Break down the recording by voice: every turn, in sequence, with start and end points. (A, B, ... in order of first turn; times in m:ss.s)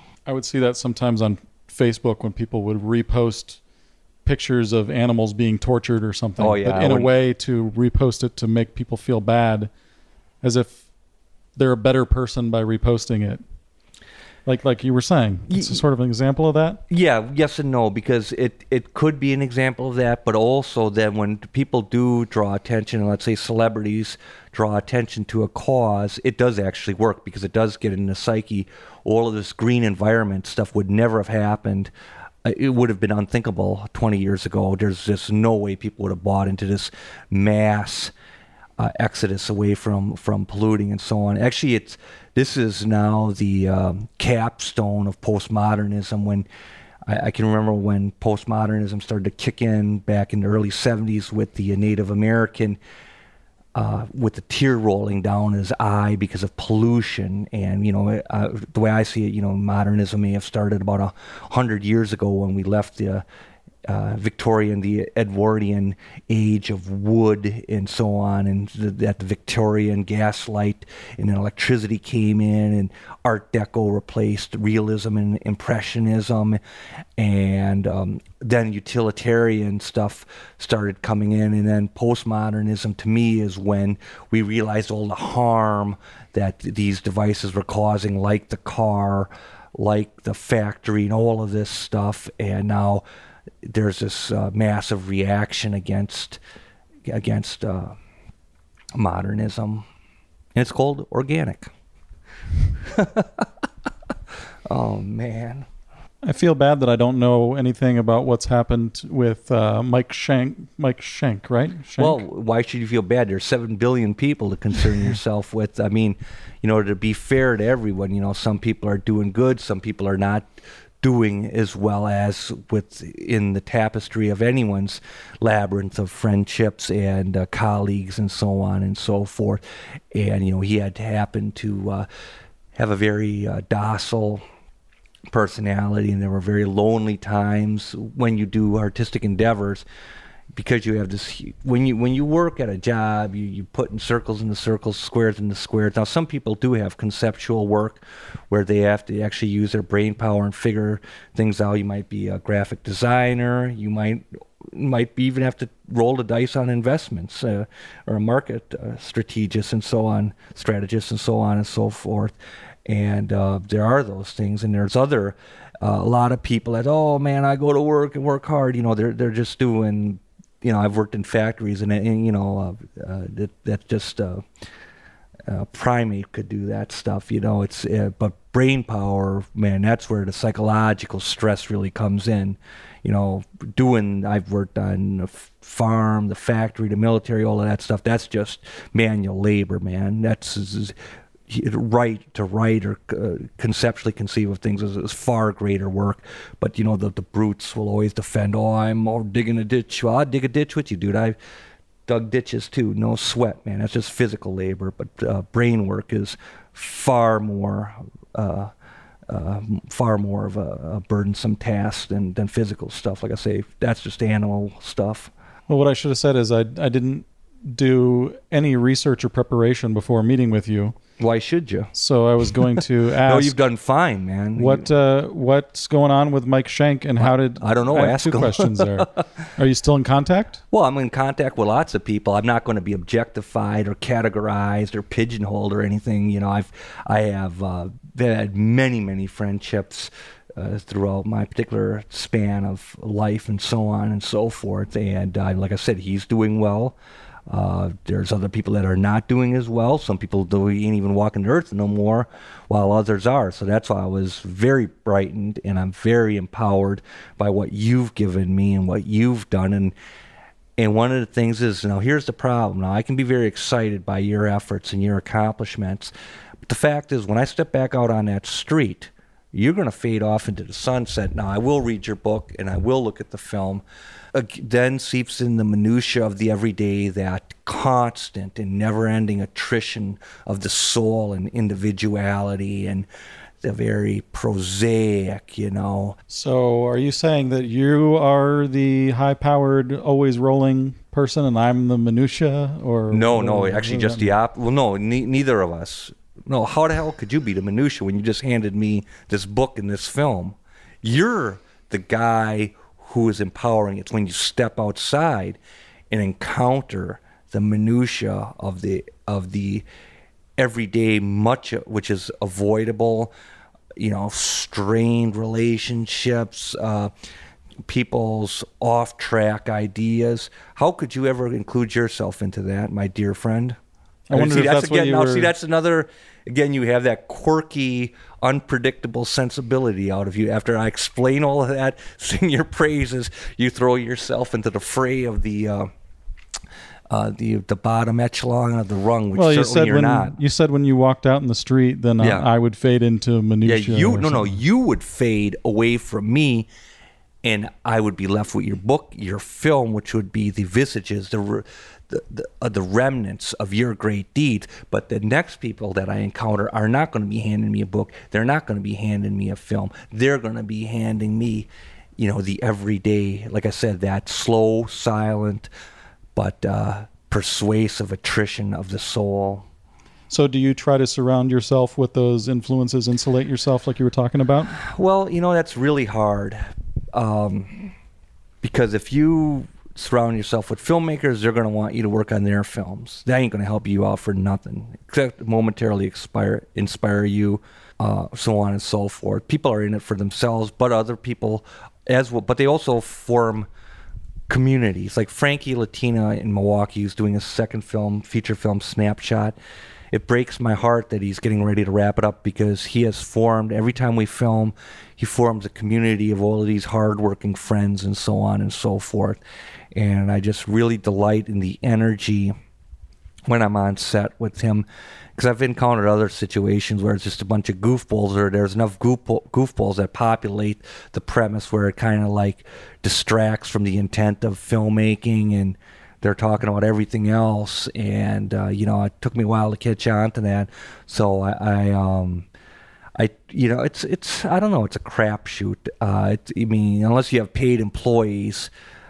0:00.3-0:03.6 A
0:04.2-0:09.7 A
0:06.4-0:07.1 B
0:10.4-0:10.8 A
0:11.6-0:13.4 A
0:14.5-0:16.8 A
0:15.5-0:15.8 B
0:16.9-0:31.9 B
0:32.4-0:38.1 B
0:38.8-0:46.5 B
0:47.1-0:52.8 B
0:53.8-1:03.2 B
1:03.9-1:16.6 B
1:17.2-1:33.0 B
1:33.6-1:36.4 B
1:37.0-1:38.0 B
1:39.0-1:39.9 B
1:40.6-1:41.7 B
1:42.8-1:43.5 B
1:44.7-1:45.7 B
1:46.2-1:52.2 A
1:52.0-2:00.5 B
2:01.0-2:09.6 B
2:10.1-2:12.1 B
2:12.8-2:14.4 B
2:15.3-2:19.8 B
2:20.5-2:42.3 B
2:42.9-2:54.4 B
2:55.5-3:11.0 B
3:11.5-3:21.4 B
3:22.1-3:28.7 B
3:29.3-3:35.3 B
3:35.7-3:41.0 A
3:41.2-3:41.9 B
3:42.0-3:43.6 A
3:43.2-3:44.9 B
3:44.6-3:50.6 A
3:47.2-3:49.2 B
3:50.7-4:07.0 B
4:07.5-4:20.0 B
4:20.8-4:26.1 B
4:26.7-4:43.1 B
4:43.6-4:46.2 B
4:46.3-4:54.3 A
4:53.1-5:05.6 B
5:06.1-5:09.8 B
5:10.6-5:13.3 B
5:14.0-5:17.1 B
5:17.8-5:23.8 B
5:24.3-5:25.5 A
5:24.3-5:35.9 B
5:37.1-5:40.4 B
5:39.3-5:44.6 A
5:42.2-5:42.5 B
5:43.6-5:46.7 B
5:47.4-6:05.7 B
6:06.4-6:09.6 B
6:10.3-6:14.8 A
6:14.7-6:16.6 B
6:17.1-6:17.9 B
6:18.6-6:33.7 B
6:34.5-6:39.6 B
6:40.1-6:49.4 B
6:49.9-6:52.5 B
6:53.5-6:54.8 B
6:55.4-7:12.5 B
7:13.2-7:18.7 B